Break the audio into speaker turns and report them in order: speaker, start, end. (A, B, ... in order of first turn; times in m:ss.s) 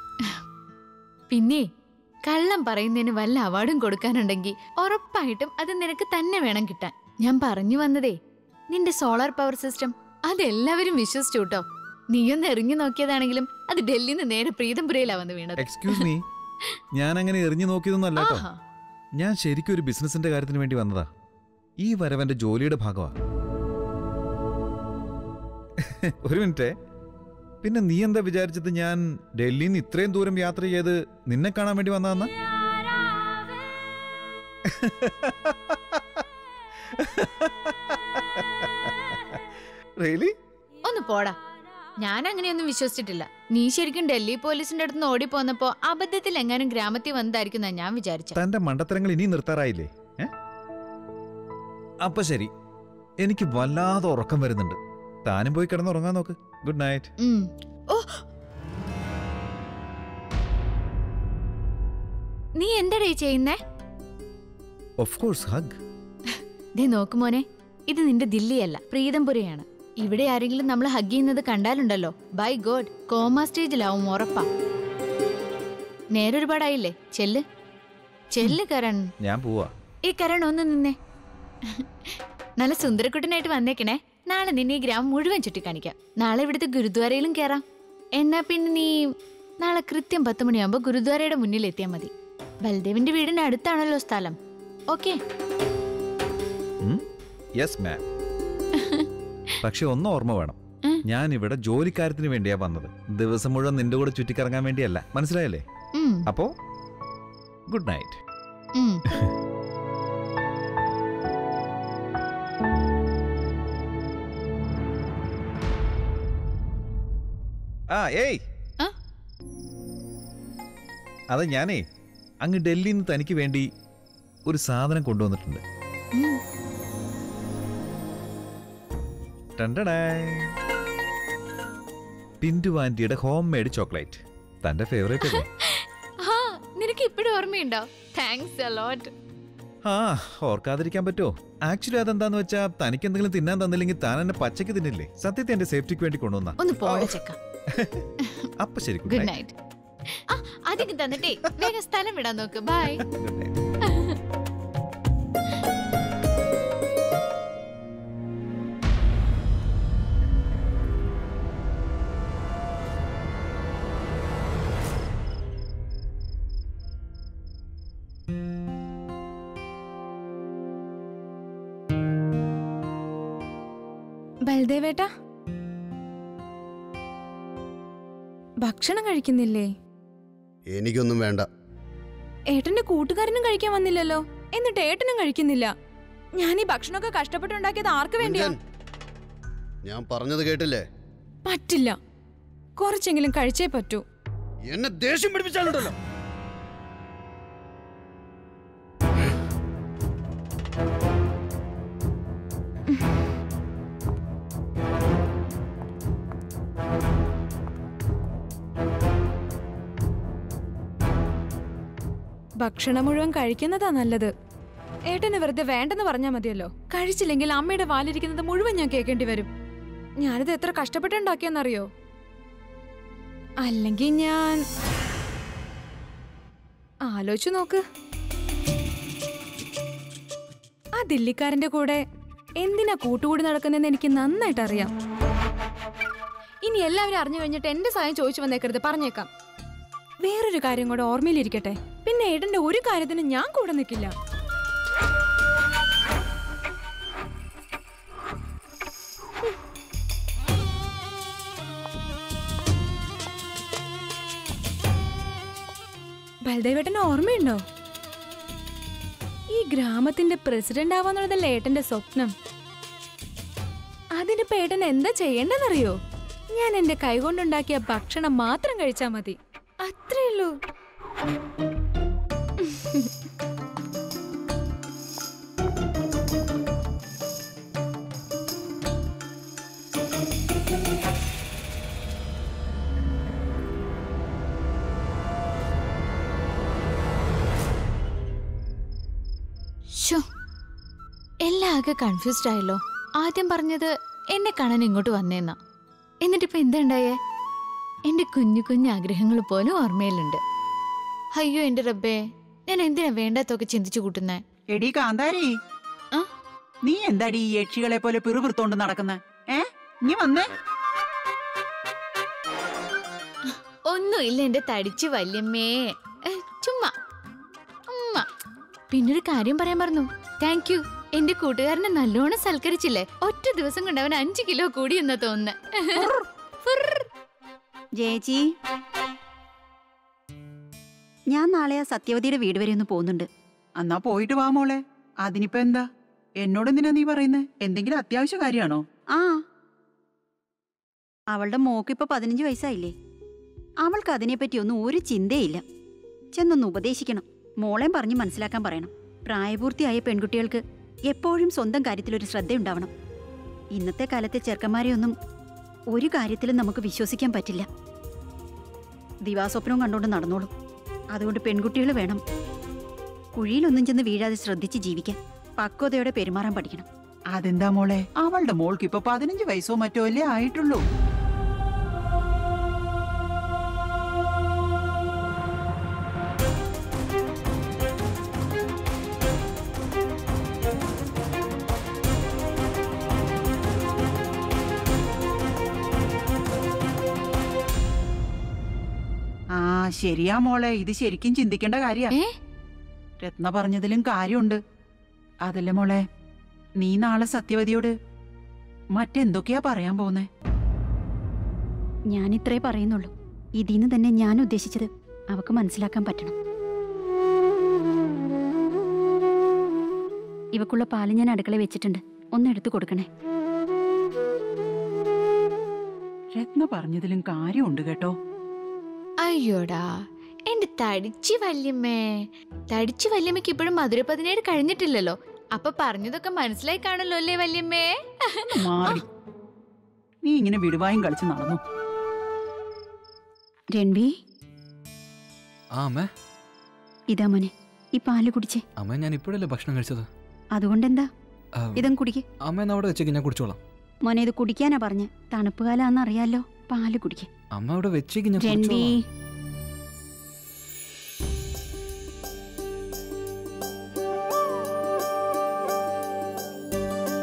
0:01.3-0:01.7 A
0:02.2-0:08.2 A
0:08.7-0:16.1 A
0:15.6-0:16.2 B
0:16.9-0:18.5 B
0:18.2-0:18.6 A
0:19.2-0:21.1 B
0:21.8-0:23.2 B
0:25.8-0:26.7 B
0:27.6-0:32.3 B
0:34.6-0:36.2 B
0:36.9-0:39.4 B
0:40.0-0:40.3 B
0:40.8-0:41.4 A
0:42.0-0:48.4 A
0:48.4-0:50.3 B
0:52.0-0:52.5 B
0:53.2-0:57.1 B
0:57.2-0:58.2 A
1:02.6-1:03.6 A
1:05.0-1:05.8 B
1:06.3-1:14.5 A
1:16.1-1:17.4 A
1:18.3-1:19.1 A
1:19.2-1:19.7 B
1:20.1-1:21.0 A
1:22.6-1:27.6 A
1:28.2-1:29.1 A
1:29.6-1:32.1 A
1:32.6-1:34.4 A
1:34.9-1:35.2 A
1:37.6-1:38.0 B
1:38.7-1:39.1 A
1:39.6-1:45.6 B
1:46.0-1:46.3 A
1:46.3-1:46.5 B
1:47.7-1:48.2 B
1:48.8-1:49.0 A
1:57.9-1:58.4 B
2:01.3-2:01.8 B
2:02.4-2:03.7 B
2:04.5-2:05.6 B
2:09.6-2:10.5 B
2:12.4-2:15.5 B
2:15.2-2:19.1 A
2:19.8-2:28.1 B
2:26.6-2:27.4 A
2:28.2-2:28.5 A
2:28.6-2:29.4 B
2:29.1-2:29.5 A
2:30.1-2:33.0 A
2:31.2-2:31.7 B
2:33.0-2:33.5 B
2:33.8-2:34.2 A
2:54.4-2:55.1 C
2:58.6-2:59.7 C
3:00.7-3:01.5 D
3:02.5-3:05.7 C
3:06.4-3:08.5 C
3:08.2-3:08.6 D
3:09.8-3:10.8 D
3:11.4-3:12.0 C
3:12.8-3:14.0 C
3:14.7-3:15.9 D
3:32.6-3:34.3 C
3:35.1-3:39.5 C
3:40.2-3:41.9 C
3:43.6-3:44.6 C
3:47.0-3:47.8 C
3:51.0-3:52.0 C
3:52.6-3:54.9 C
3:56.6-3:59.3 C
4:00.2-4:04.1 C
4:16.4-4:17.6 C
4:19.5-4:22.3 C
4:24.2-4:26.0 C
4:26.6-4:30.5 C
4:32.6-4:33.1 C
4:50.0-4:50.2 A
4:51.4-4:55.6 A
4:56.2-4:57.2 A
4:58.1-5:00.4 A
5:01.4-5:04.4 A
5:04.7-5:05.5 E
5:06.8-5:10.5 E
5:13.9-5:16.9 A
5:17.9-5:18.3 A
5:18.9-5:26.1 A
5:26.7-5:27.0 A
5:28.0-5:28.4 F
5:31.3-5:33.3 F
5:33.8-5:35.9 E
5:36.4-5:38.8 E
5:39.1-5:39.4 F
5:41.3-5:42.9 F
5:43.8-5:45.6 F
5:46.3-5:52.9 F
5:53.7-5:55.1 F
5:55.9-5:57.7 F
5:59.2-6:00.5 F
6:01.1-6:02.2 F
6:03.4-6:06.9 F
6:07.3-6:10.8 E
6:29.6-6:32.1 E
6:33.2-6:34.6 E
6:35.4-6:36.0 E
6:36.8-6:37.9 E
6:38.9-6:40.3 E
6:42.1-6:46.4 F
6:50.5-6:53.1 F
6:56.4-6:58.2 E
6:59.2-6:59.9 A
7:00.5-7:09.0 A
7:08.6-7:09.1 E
7:10.2-7:11.6 E
7:13.7-7:14.1 F
7:15.8-7:16.1 G
7:17.1-7:18.6 F
7:18.8-7:20.1 G
7:20.6-7:21.1 F
7:21.6-7:21.8 G
7:21.8-7:22.2 F
7:22.4-7:23.6 G
7:24.0-7:27.3 F
7:27.5-7:28.9 G
7:28.4-7:29.0 F